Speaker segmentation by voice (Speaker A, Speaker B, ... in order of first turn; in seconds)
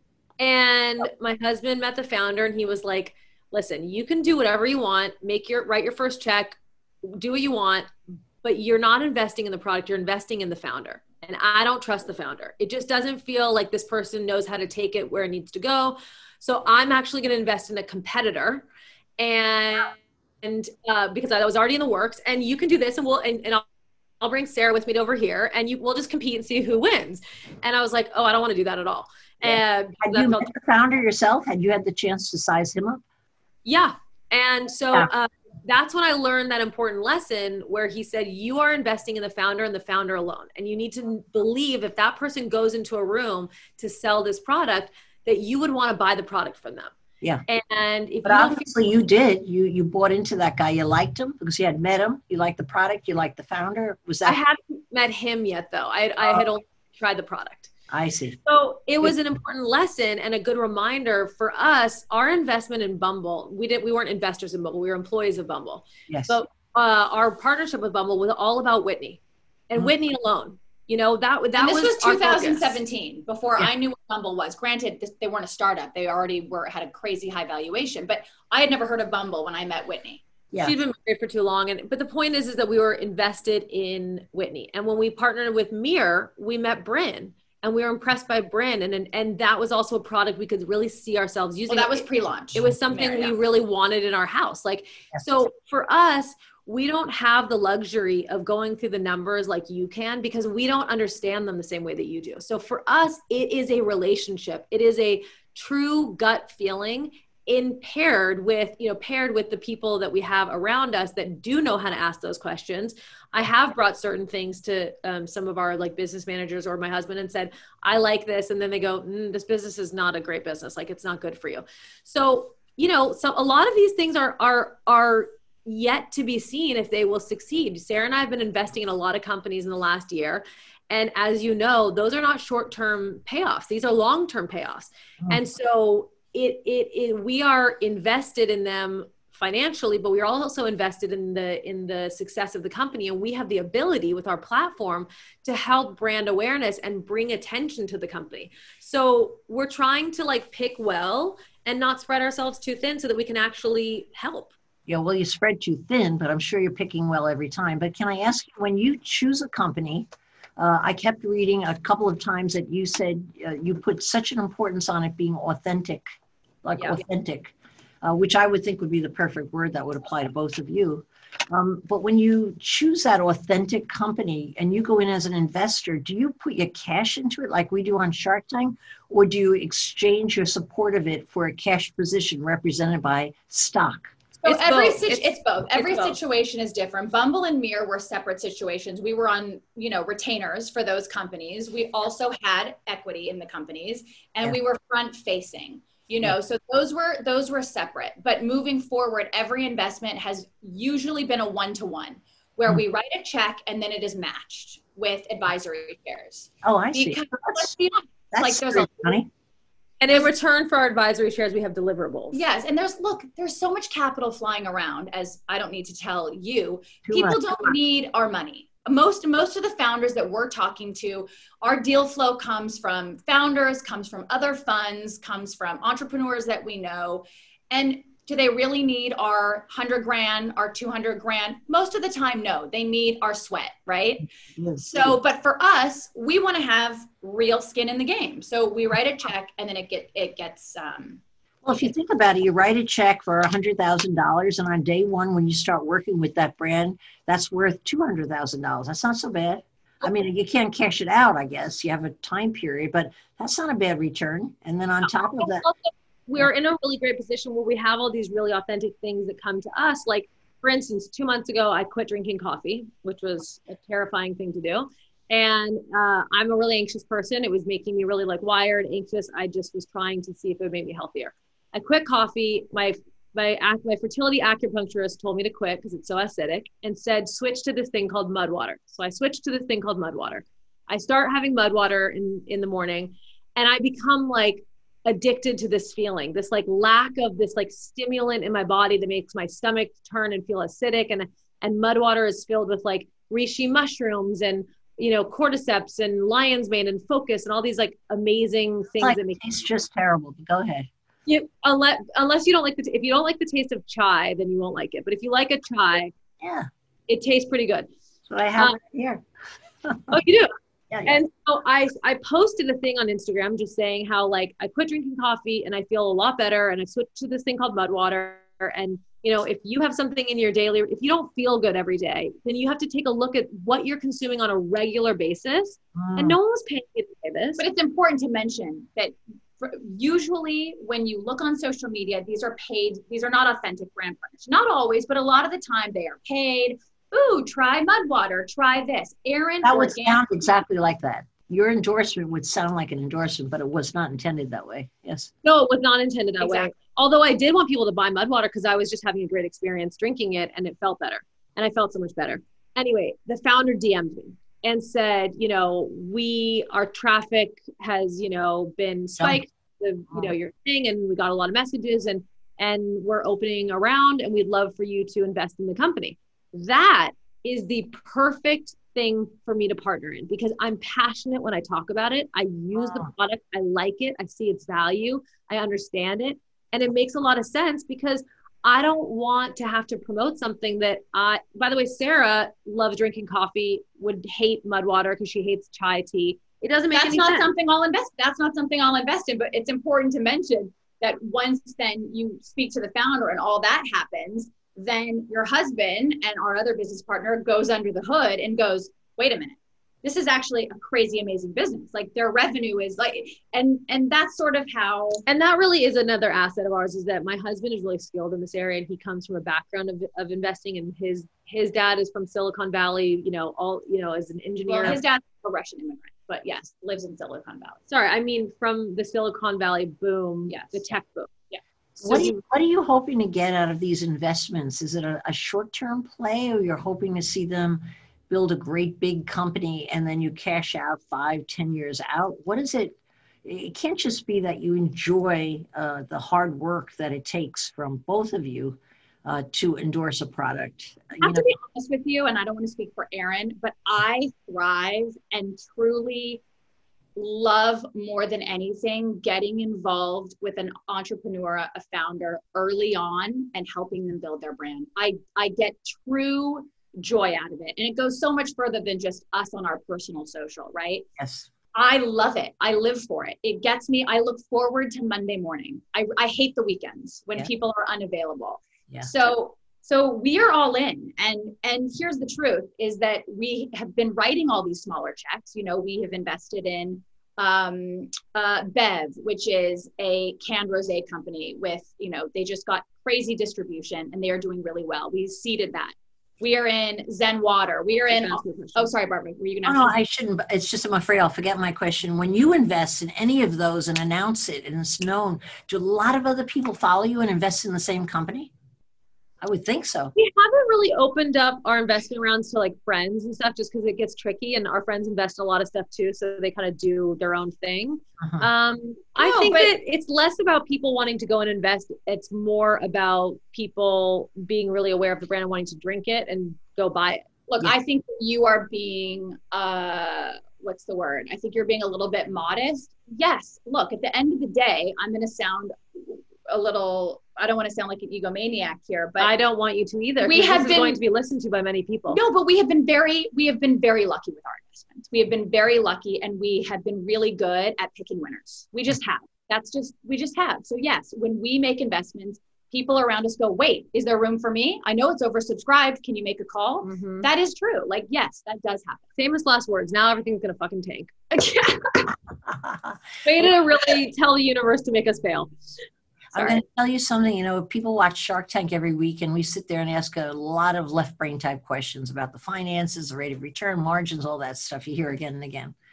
Speaker A: 0.4-18.7, 19.2-23.6, 24.2-30.5, 33.6-47.0, 47.5-48.7, 54.2-57.7, 58.5-72.8, 80.6-154.5, 184.4-186.2, 210.0-212.4, 255.0-299.4, 301.3-306.1, 307.1-307.9, 310.1-310.5, 311.1-327.6, 345.4-387.5, 405.3-415.0, 417.9-421.3, 422.1-422.3, 488.1-488.9, 500.2-517.3, 529.2-532.2, 546.8-547.3, 549.2-551.2, 553.2-555.7
Speaker B: 29.4-33.0, 48.2-54.4, 57.9-58.4, 66.1-66.4, 80.5-80.8, 154.9-160.1, 160.6-166.0, 166.6-184.1, 206.6-207.7, 208.3-209.3, 217.1-217.8, 234.6-235.2, 241.6-255.7, 299.0-300.9, 306.4-306.7, 308.3-309.2, 309.9-310.2, 310.9-311.2, 326.0-326.4, 339.6-345.3, 422.0-441.5, 461.2-461.5, 489.6-498.5, 499.4-500.1, 508.2-508.5, 552.5-553.0, 556.3-565.8
Speaker C: 71.6-80.2, 91.7-93.3, 184.4-209.2, 212.3-234.3, 234.8-241.2, 327.6-340.3, 346.4-346.8, 386.9-405.2, 414.7-417.8, 420.5-420.9, 441.2-446.4, 447.2-461.1, 461.7-489.9, 509.2-509.7, 517.5-529.3, 530.2-531.0, 532.1-549.1, 551.3-552.1